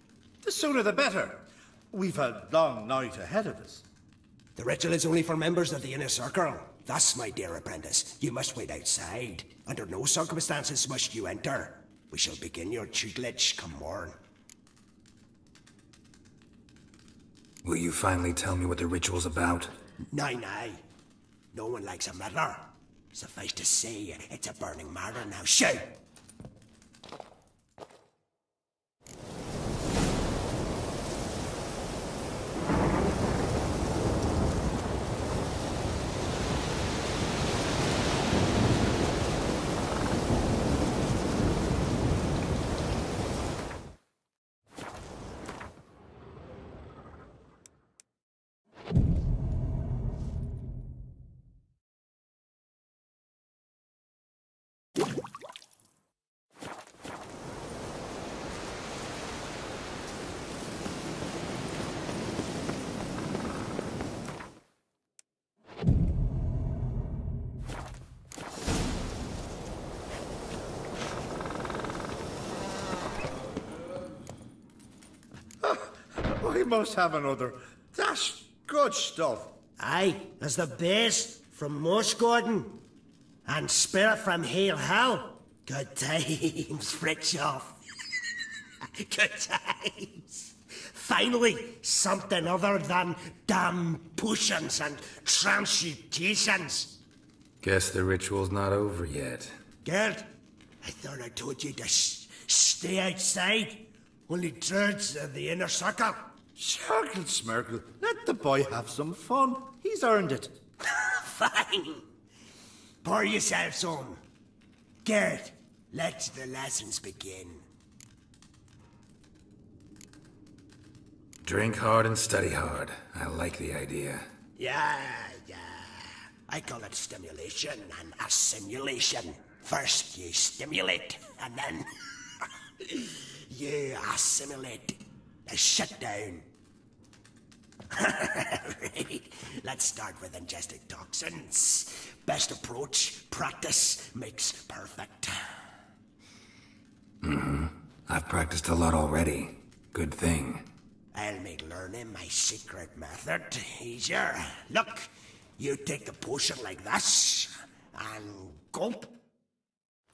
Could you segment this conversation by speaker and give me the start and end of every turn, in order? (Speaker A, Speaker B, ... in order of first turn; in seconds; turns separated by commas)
Speaker A: 0.4-3.8, Speaker B: 4.5-14.2, Speaker C: 17.6-19.7, Speaker B: 20.1-20.8, Speaker B: 21.5-25.9, Speaker A: 75.6-79.5, Speaker B: 79.8-82.8, Speaker B: 83.5-87.8, Speaker B: 88.8-96.9, Speaker C: 97.6-99.5, Speaker B: 99.8-100.3, Speaker B: 100.8-106.3, Speaker A: 106.6-110.6, Speaker B: 110.8-112.0, Speaker B: 113.0-114.2, Speaker B: 115.0-117.6, Speaker C: 121.4-124.3, Speaker B: 124.5-136.5, Speaker B: 137.9-145.5, Speaker C: 147.2-150.6, Speaker B: 151.1-159.1